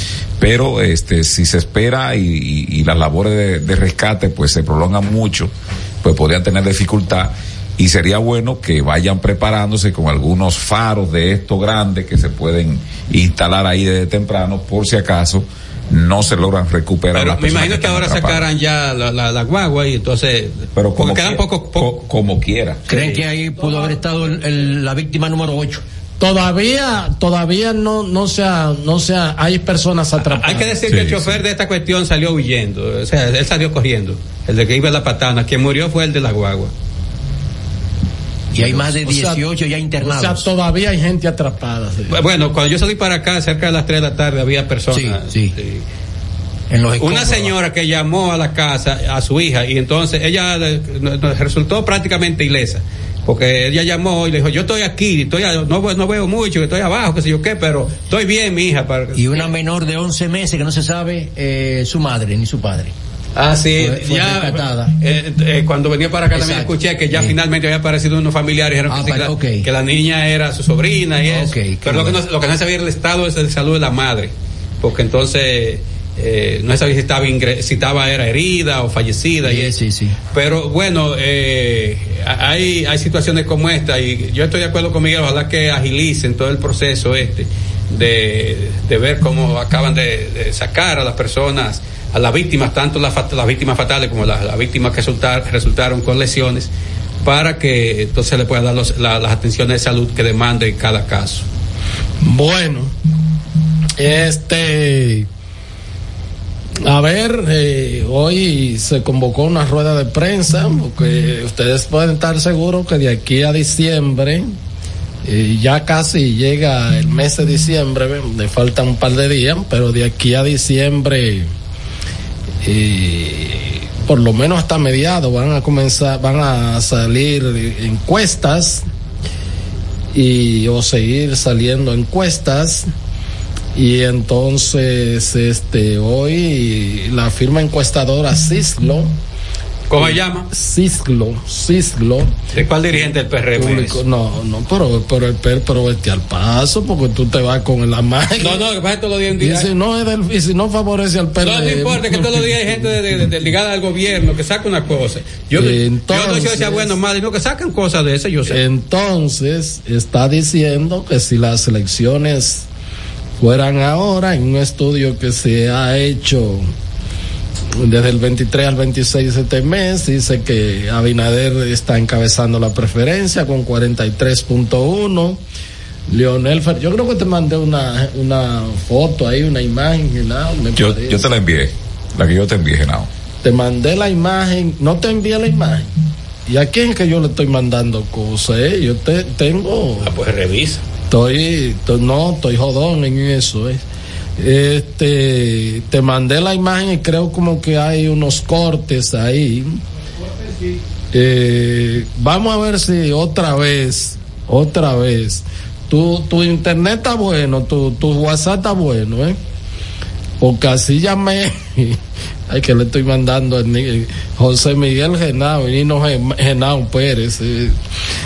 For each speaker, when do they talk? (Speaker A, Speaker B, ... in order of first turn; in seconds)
Speaker A: 0.4-18.5, 20.7-22.9, 30.9-31.4, 180.8-183.1
Speaker B: 17.1-22.0, 22.9-23.9, 30.2-36.7, 42.1-45.8, 47.0-59.5, 63.4-79.7, 80.3-96.7, 97.2-101.5, 139.9-140.5, 142.5-144.0, 148.4-149.7, 151.4-158.6, 190.0-190.8
Speaker C: 22.9-25.8, 38.5-40.5, 44.9-45.5, 46.7-47.5, 59.1-62.9, 63.8-64.9, 66.3-67.4, 68.9-69.7, 71.3-72.2, 79.4-80.2
Speaker D: 26.2-30.8, 38.6-39.4, 40.0-42.2, 102.2-102.9, 104.0-105.3, 106.8-114.5, 115.2-121.5, 122.6-128.8, 130.1-132.9, 133.7-139.1, 140.0-142.3, 142.9-148.6, 149.4-153.2, 155.5-156.9, 158.5-162.7, 163.4-166.7, 167.8-175.4, 176.1-181.3, 183.4-185.9, 186.5-190.1, 191.1-193.8, 194.4-199.8, 201.1-209.4, 210.4-212.0, 212.5-217.7